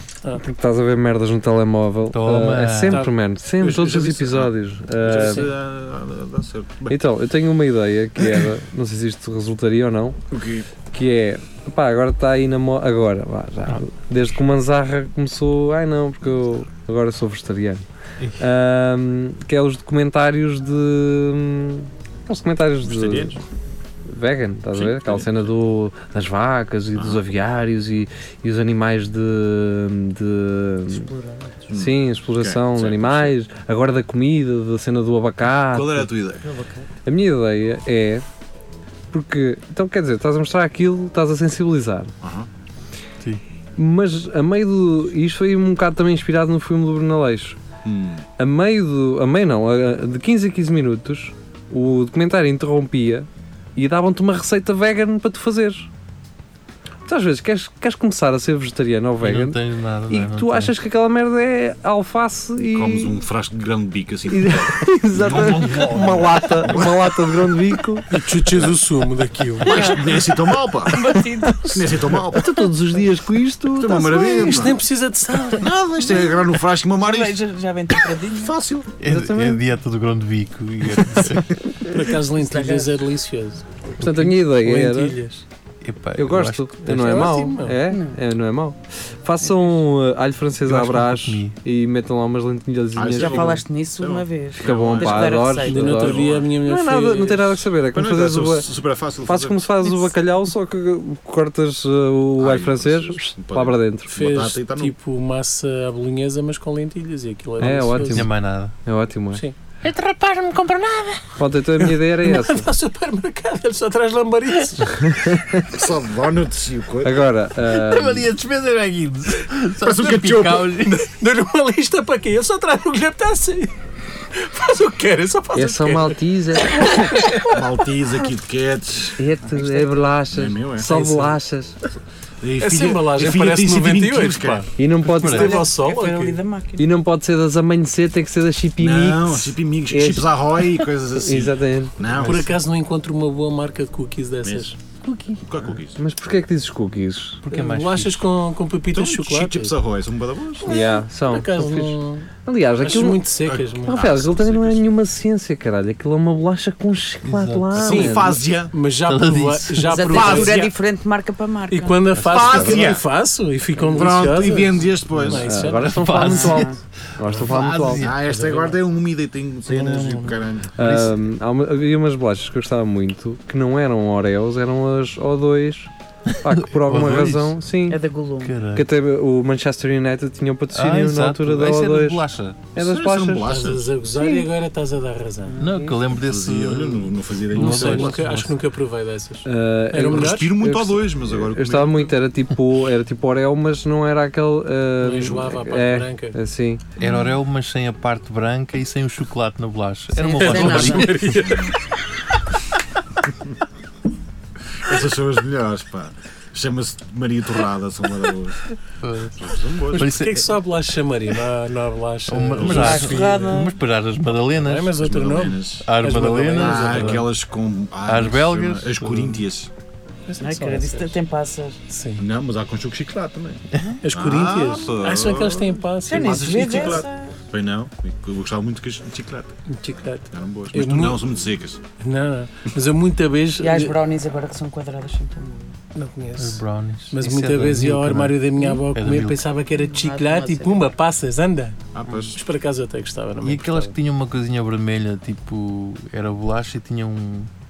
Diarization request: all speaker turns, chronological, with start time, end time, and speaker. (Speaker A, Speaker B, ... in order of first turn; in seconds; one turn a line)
Speaker A: 0.3-5.5
Speaker B: 2.1-3.0
Speaker C: 3.5-7.0
Speaker A: 6.9-10.2
Speaker C: 10.3-10.7
Speaker A: 10.9-17.8
Speaker A: 18.4-23.4
Speaker C: 22.8-23.4
Speaker A: 24.1-31.1
Speaker C: 24.7-25.4
Speaker C: 26.9-27.2
Speaker D: 30.9-31.7
Speaker C: 31.7-33.3
Speaker A: 31.7-36.1
Speaker C: 35.7-36.5
Speaker D: 36.4-36.9
Speaker A: 37.0-38.2
Speaker A: 39.1-42.1
Speaker C: 42.2-42.5
Speaker A: 43.8-47.6
Speaker C: 47.8-48.2
Speaker A: 48.4-55.9
Speaker A: 57.0-63.2
Speaker B: 59.2-60.7
Speaker C: 62.7-67.4
Speaker A: 64.3-68.1
Speaker E: 68.1-70.0
Speaker C: 69.6-72.5
Speaker D: 69.7-70.3
Speaker D: 70.8-71.8
Speaker A: 72.3-74.7
Speaker C: 73.7-74.8
Speaker E: 74.2-75.7
Speaker C: 75.5-77.4
Speaker D: 76.1-76.4
Speaker D: 77.0-78.5
Speaker C: 78.3-78.9
Speaker B: 79.0-81.5
Speaker A: 79.0-79.7
Speaker E: 81.9-85.4
Speaker D: 82.4-83.0
Speaker A: 84.0-85.2
Speaker B: 85.8-87.3
Speaker A: 86.2-93.6
Speaker E: 86.8-87.8
Speaker D: 87.8-88.2
Speaker B: 90.6-91.5
Speaker C: 92.9-96.5
Speaker D: 93.1-96.2
Speaker A: 94.6-98.7
Speaker E: 95.6-97.6
Speaker C: 97.9-99.7
Speaker A: 99.2-104.2
Speaker C: 102.4-104.9
Speaker E: 104.1-108.2
Speaker A: 107.6-108.3
Speaker B: 108.1-108.7
Speaker A: 108.8-109.4
Speaker B: 109.8-111.2
Speaker A: 111.3-112.7
Speaker E: 112.1-115.0
Speaker A: 115.0-115.7
Speaker C: 115.7-117.2
Speaker A: 117.0-118.3
Speaker B: 117.7-121.0
Speaker C: 119.8-120.7
Speaker E: 120.8-123.7
Speaker E: 124.3-126.2
Speaker A: 125.5-127.2
Speaker E: 126.8-127.5
Speaker C: 127.5-129.2
Speaker A: 129.2-131.8
Speaker D: 129.5-129.9
Speaker C: 130.3-130.9
Speaker E: 130.9-131.3
Speaker C: 132.4-134.7
Speaker E: 132.6-136.4
Speaker A: 134.8-135.6
Speaker B: 135.1-135.6
Speaker D: 135.2-136.9
Speaker A: 136.8-140.3
Speaker C: 138.8-142.6
Speaker A: 141.1-142.1
Speaker E: 142.2-144.7
Speaker C: 144.4-144.7
Speaker A: 145.0-145.4
Speaker C: 145.4-146.0
Speaker A: 145.9-147.4
Speaker B: 147.4-148.2
Speaker E: 147.5-149.7
Speaker C: 148.9-150.7
Speaker A: 150.6-153.2
Speaker D: 150.7-151.0
Speaker E: 151.3-154.1
Speaker C: 153.5-154.8
Speaker A: 153.8-158.4
Speaker B: 157.2-157.7
Speaker C: 157.7-158.7
Speaker E: 157.8-160.7
Speaker B: 159.1-160.0
Speaker D: 159.8-162.6
Speaker C: 160.1-160.7
Speaker E: 161.7-166.4
Speaker B: 162.2-162.7
Speaker C: 162.3-163.0
Speaker C: 163.9-165.6
Speaker B: 165.1-168.2
Speaker A: 165.4-168.1
Speaker D: 166.2-166.8
Speaker C: 167.5-170.7
Speaker E: 168.2-168.8
Speaker E: 169.7-170.4
Speaker A: 170.8-178.0
Speaker B: 170.8-171.1
Speaker B: 176.4-177.5
Speaker D: 177.9-178.6
Speaker B: 178.4-178.9
Speaker A: 178.7-182.2
Speaker B: 180.7-182.7
Speaker A: 182.7-183.5
Speaker C: 182.7-183.9
Speaker E: 183.4-185.6
Speaker A: 184.1-184.5
Speaker D: 185.5-186.0
Speaker B: 185.6-188.6
Speaker C: 186.1-188.2
Speaker E: 187.5-190.5
Speaker A: 189.4-196.8
Speaker C: 190.1-192.2
Speaker E: 195.0-196.4
Speaker C: 197.0-197.4
Speaker B: 197.0-201.3
Speaker D: 200.1-201.4
Speaker E: 200.4-201.8
Speaker C: 201.4-201.8
Speaker C: 204.7-208.6
Speaker B: 209.0-210.6
Speaker C: 209.4-210.1
Speaker E: 209.9-213.5
Speaker B: 212.3-215.0
Speaker C: 212.6-213.1
Speaker D: 212.7-213.8
Speaker E: 214.6-217.2
Speaker C: 215.0-215.8
Speaker B: 215.8-217.3
Speaker C: 216.6-219.7
Speaker B: 218.1-219.4
Speaker E: 220.3-221.2
Speaker D: 220.4-221.8
Speaker E: 221.9-222.2
Speaker C: 222.2-229.6
Speaker B: 223.7-224.0
Speaker E: 224.0-227.0
Speaker D: 226.1-227.3
Speaker E: 229.7-231.2
Speaker C: 230.3-231.8
Speaker E: 232.0-233.9
Speaker D: 233.6-235.8
Speaker E: 235.9-241.8
Speaker B: 236.4-239.4
Speaker D: 239.8-240.9
Speaker C: 241.9-242.4
Speaker E: 242.3-243.9
Speaker B: 243.4-247.5